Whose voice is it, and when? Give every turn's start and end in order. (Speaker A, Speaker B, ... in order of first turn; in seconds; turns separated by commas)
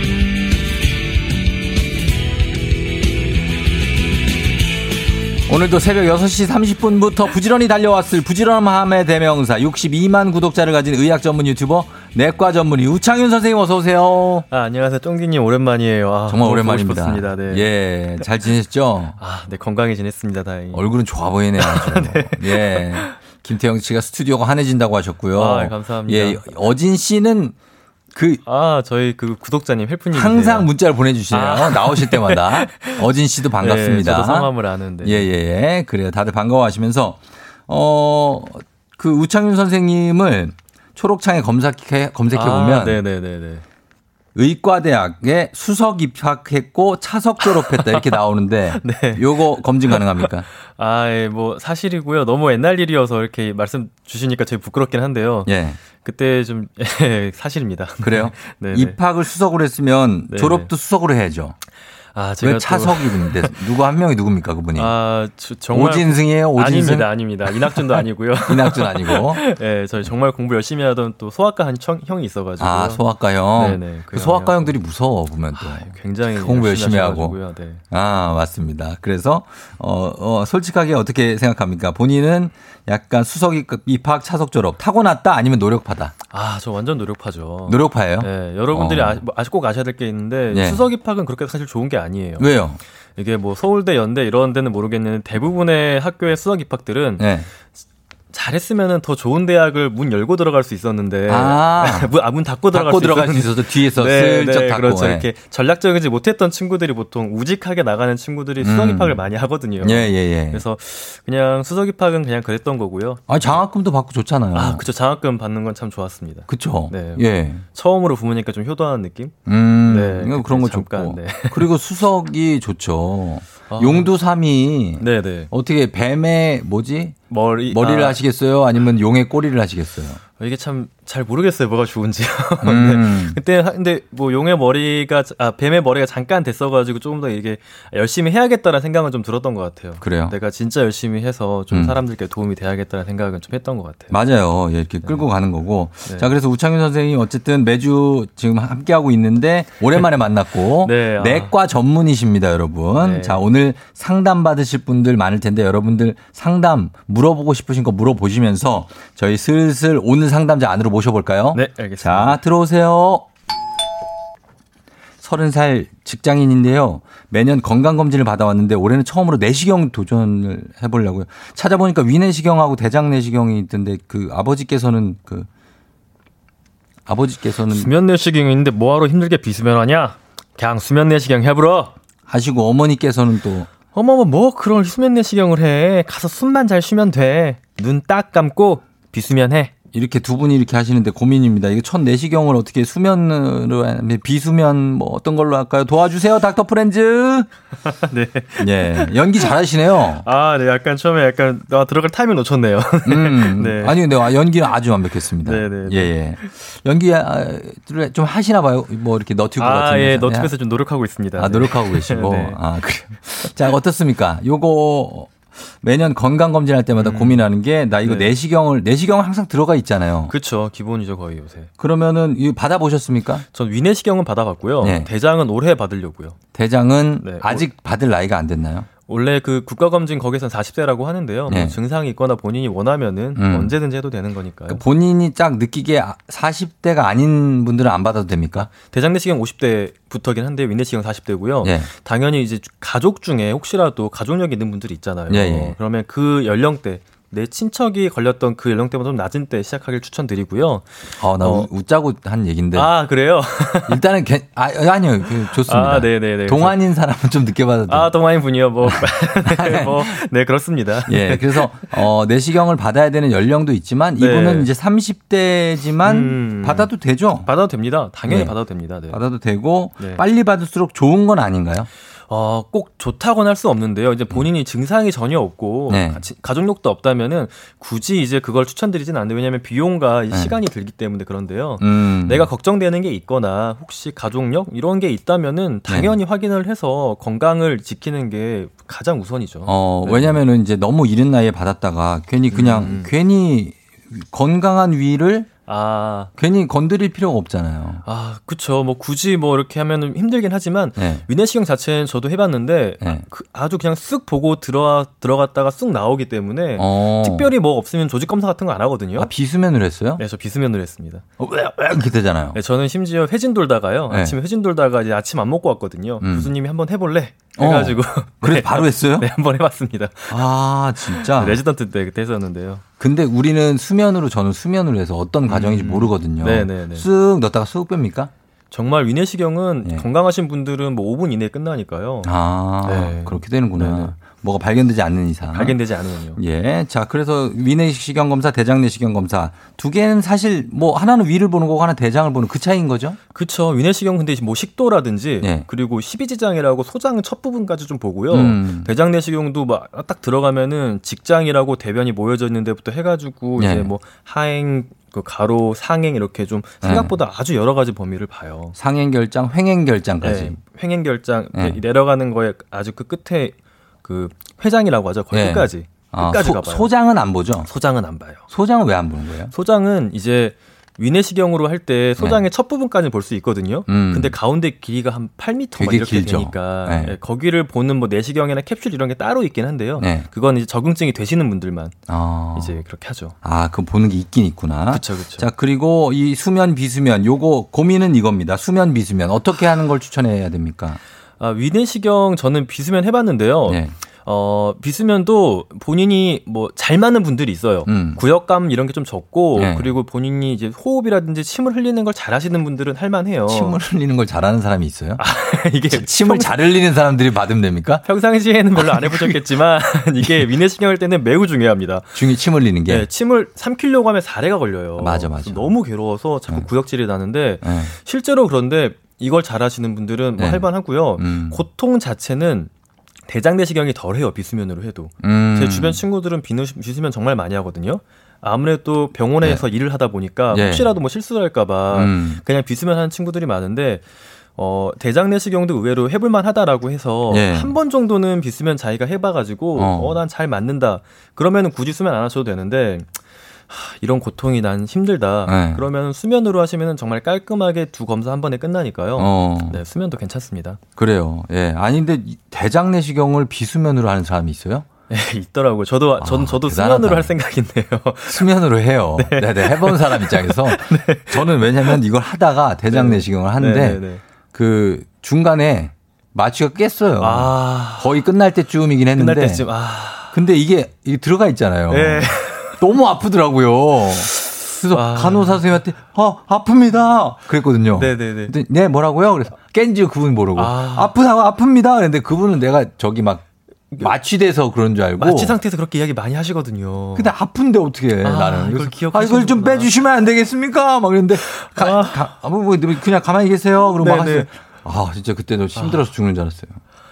Speaker A: 5.5-14.5, Speaker B: 14.5-17.7, Speaker A: 16.3-19.2, Speaker B: 19.2-20.8, Speaker A: 20.7-27.6, Speaker B: 21.6-23.1, Speaker B: 25.4-26.4, Speaker A: 28.1-28.4, Speaker B: 28.4-30.7, Speaker A: 30.1-34.5, Speaker B: 31.3-33.1, Speaker B: 33.6-35.3, Speaker A: 35.0-43.0, Speaker B: 42.3-43.6, Speaker A: 44.4-50.5, Speaker B: 47.4-48.2, Speaker B: 48.7-59.0, Speaker A: 55.5-55.8, Speaker A: 58.0-61.6, Speaker B: 60.3-60.7, Speaker B: 62.1-63.6, Speaker A: 62.4-65.0, Speaker B: 64.8-73.0, Speaker A: 65.7-69.4, Speaker A: 72.6-77.4, Speaker B: 73.5-74.8, Speaker B: 75.5-77.8, Speaker A: 77.9-86.1, Speaker B: 86.3-92.5, Speaker A: 87.7-89.2, Speaker A: 90.5-90.9, Speaker A: 92.4-92.8, Speaker B: 93.2-97.3, Speaker A: 97.2-97.5, Speaker B: 98.3-113.6, Speaker A: 101.3-102.1, Speaker A: 102.7-105.3, Speaker A: 108.6-109.2, Speaker A: 109.8-110.6, Speaker A: 113.3-114.8, Speaker B: 114.5-119.3, Speaker A: 116.5-117.6, Speaker A: 119.5-127.2, Speaker B: 119.8-121.7, Speaker B: 123.7-124.1, Speaker B: 125.0-125.5, Speaker B: 127.3-128.2, Speaker A: 127.7-130.2, Speaker B: 130.4-144.1, Speaker A: 132.6-133.4, Speaker A: 140.0-140.4, Speaker A: 141.7-142.0, Speaker A: 144.1-163.3, Speaker B: 150.8-151.5, Speaker B: 153.0-153.4, Speaker B: 161.5-162.4, Speaker A: 165.2-175.5, Speaker A: 177.1-177.9, Speaker B: 177.7-181.9, Speaker A: 182.3-183.7, Speaker B: 183.9-189.7, Speaker A: 189.9-197.5, Speaker B: 197.8-199.5, Speaker A: 198.6-200.2, Speaker B: 200.2-204.0, Speaker A: 203.1-210.5, Speaker B: 205.4-206.5, Speaker B: 209.6-212.6, Speaker A: 211.4-220.3, Speaker B: 216.9-217.5, Speaker B: 218.0-218.3, Speaker B: 220.3-221.7, Speaker A: 221.8-223.4, Speaker B: 223.5-226.4, Speaker A: 224.8-225.1, Speaker A: 226.5-228.9, Speaker B: 227.2-227.6, Speaker B: 229.1-234.8, Speaker A: 231.5-231.8, Speaker A: 233.4-233.7, Speaker A: 234.7-238.7, Speaker B: 238.8-251.7, Speaker A: 241.6-241.9, Speaker A: 245.3-245.8, Speaker A: 251.2-252.9, Speaker B: 252.7-254.0, Speaker A: 253.9-258.1, Speaker B: 255.5-256.8, Speaker B: 257.9-261.9, Speaker A: 258.8-260.2, Speaker A: 261.1-267.5, Speaker B: 264.2-264.7, Speaker B: 266.0-266.9, Speaker B: 267.4-269.2, Speaker A: 268.3-268.5, Speaker A: 269.1-271.9, Speaker B: 272.3-290.4, Speaker A: 275.9-276.2, Speaker A: 281.8-282.5, Speaker A: 285.9-286.2, Speaker A: 289.7-295.5, Speaker B: 292.5-293.1, Speaker B: 295.7-296.3, Speaker A: 296.4-298.0, Speaker B: 298.1-309.3, Speaker A: 301.0-301.2, Speaker A: 306.8-307.5, Speaker A: 309.2-310.2, Speaker B: 310.2-311.2, Speaker A: 311.4-312.6, Speaker B: 312.6-320.4, Speaker A: 314.1-314.4, Speaker A: 316.2-316.5, Speaker A: 317.6-319.3, Speaker A: 320.3-321.6, Speaker B: 321.0-322.8, Speaker A: 323.0-328.3, Speaker B: 325.5-327.1, Speaker B: 328.7-332.3, Speaker A: 332.2-335.8, Speaker B: 332.8-334.1, Speaker B: 335.5-336.4, Speaker A: 336.4-343.2, Speaker B: 343.3-358.8, Speaker A: 348.3-348.9, Speaker A: 353.6-353.9, Speaker A: 356.8-357.1, Speaker A: 358.8-360.6, Speaker B: 360.2-366.9, Speaker A: 361.5-361.8, Speaker A: 365.3-367.7, Speaker B: 367.6-368.4, Speaker A: 368.5-369.5, Speaker B: 369.5-382.0, Speaker A: 373.9-374.4, Speaker A: 375.8-377.2, Speaker A: 380.0-380.3, Speaker A: 382.1-382.8, Speaker B: 382.6-383.3, Speaker A: 383.4-391.0, Speaker B: 384.9-385.5, Speaker B: 391.4-403.8, Speaker A: 393.7-393.9, Speaker A: 397.9-398.2, Speaker A: 399.6-399.9, Speaker A: 403.5-405.2, Speaker B: 405.2-406.7, Speaker A: 405.9-408.1, Speaker B: 408.1-412.2, Speaker A: 408.8-409.4, Speaker A: 412.1-413.1, Speaker B: 412.9-422.7, Speaker A: 415.0-415.7, Speaker A: 417.6-417.9, Speaker A: 420.4-421.6, Speaker B: 423.3-434.0, Speaker A: 425.2-426.0, Speaker A: 430.5-430.9, Speaker A: 431.9-432.4, Speaker B: 434.6-443.1, Speaker A: 437.3-437.8, Speaker A: 439.8-440.2, Speaker B: 443.7-450.8, Speaker A: 445.5-445.9, Speaker A: 449.2-449.8, Speaker A: 451.0-454.9, Speaker B: 455.1-458.5, Speaker A: 456.2-457.3, Speaker A: 458.3-464.0, Speaker B: 459.2-462.0, Speaker B: 462.9-464.2, Speaker A: 464.5-469.7, Speaker B: 467.2-468.2, Speaker B: 469.2-470.4, Speaker A: 470.3-483.5, Speaker B: 471.9-472.8, Speaker B: 474.9-475.7, Speaker B: 478.0-478.5, Speaker B: 480.6-481.1, Speaker A: 484.0-485.6, Speaker B: 485.2-487.3, Speaker A: 487.2-496.8, Speaker B: 488.2-489.9, Speaker B: 491.5-492.3, Speaker B: 494.0-494.5, Speaker B: 495.8-496.1